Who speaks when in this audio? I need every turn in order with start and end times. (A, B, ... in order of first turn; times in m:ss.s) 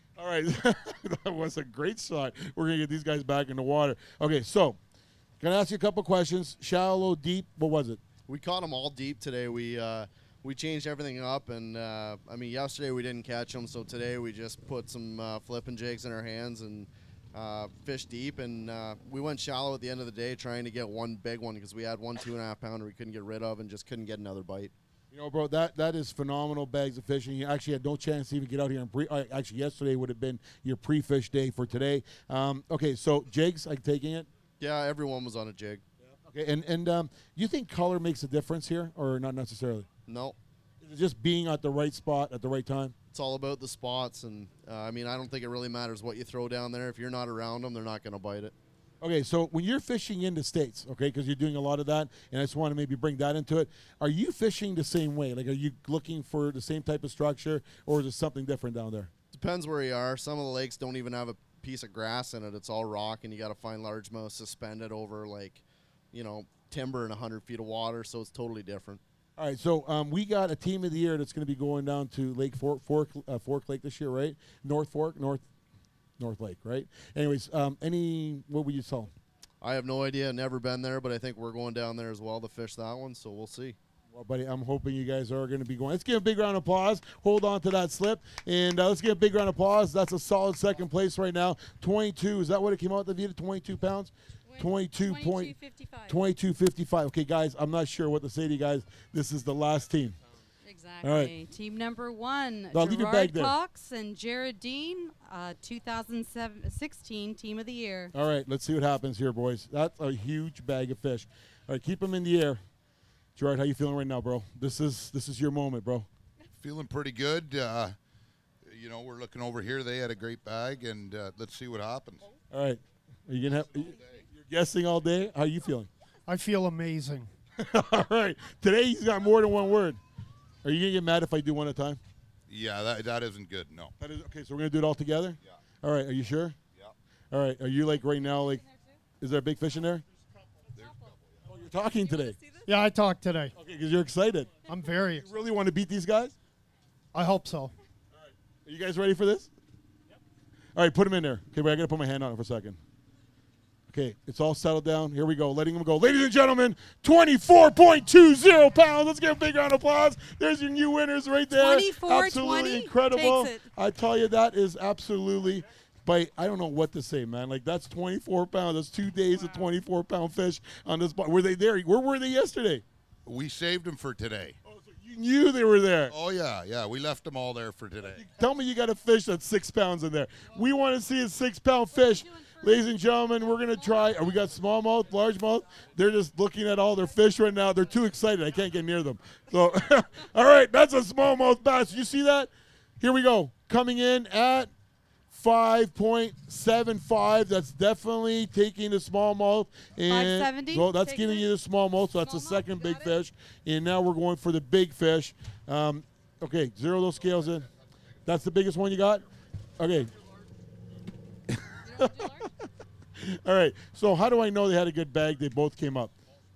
0:00.2-0:04.8 A
0:05.4-0:08.0 A
0:08.3-0:24.7 B
0:25.1-0:34.3 A
0:34.6-0:35.8 B
0:36.2-0:39.9 A
0:40.1-0:40.4 B
0:40.8-0:42.9 A
0:43.1-0:48.5 B
0:49.0-0:59.1 A
0:59.3-1:05.6 B
1:06.1-1:09.0 B
1:09.4-1:15.4 A
1:16.2-1:19.1 A
1:19.6-1:23.8 B
1:24.1-1:35.5 A
1:34.5-1:36.2 C
1:36.1-1:40.2 A
1:40.6-1:48.1 C
1:41.0-1:41.3 A
1:42.7-1:43.5 A
1:48.1-1:52.6 A
1:53.4-1:56.1 A
1:56.5-1:58.0 D
1:58.6-2:02.2 D
2:02.5-2:05.9 A
2:03.4-2:04.2 D
2:06.3-2:07.3 E
2:07.6-2:10.0 A
2:10.6-2:12.0 A
2:12.5-2:13.9 D
2:14.0-2:16.6 A
2:17.3-2:18.6 A
2:19.2-2:20.0 A
2:20.7-2:21.4 D
2:20.8-2:21.1 C
2:21.4-2:22.4 A
2:22.1-2:22.6 C
2:22.7-2:23.5 E
2:23.5-2:24.5 A
2:24.7-2:25.3 E
2:25.2-2:26.3 A
2:27.1-2:27.7 E
2:28.1-2:29.5 A
2:30.8-2:32.8 A
2:33.9-2:52.8 A
2:41.5-2:43.6 C
2:53.2-2:54.6 D
2:54.6-2:56.1 A
2:56.1-2:58.2 D
2:58.0-3:12.5 A
3:02.4-3:02.9 C
3:13.0-3:14.7 A
3:15.3-3:27.6 A
3:20.1-3:21.5 C
3:22.2-3:23.1 C
3:28.2-3:29.2 A
3:29.8-3:30.1 A
3:31.5-3:32.4 A
3:31.8-3:32.5 C
3:33.2-3:36.1 A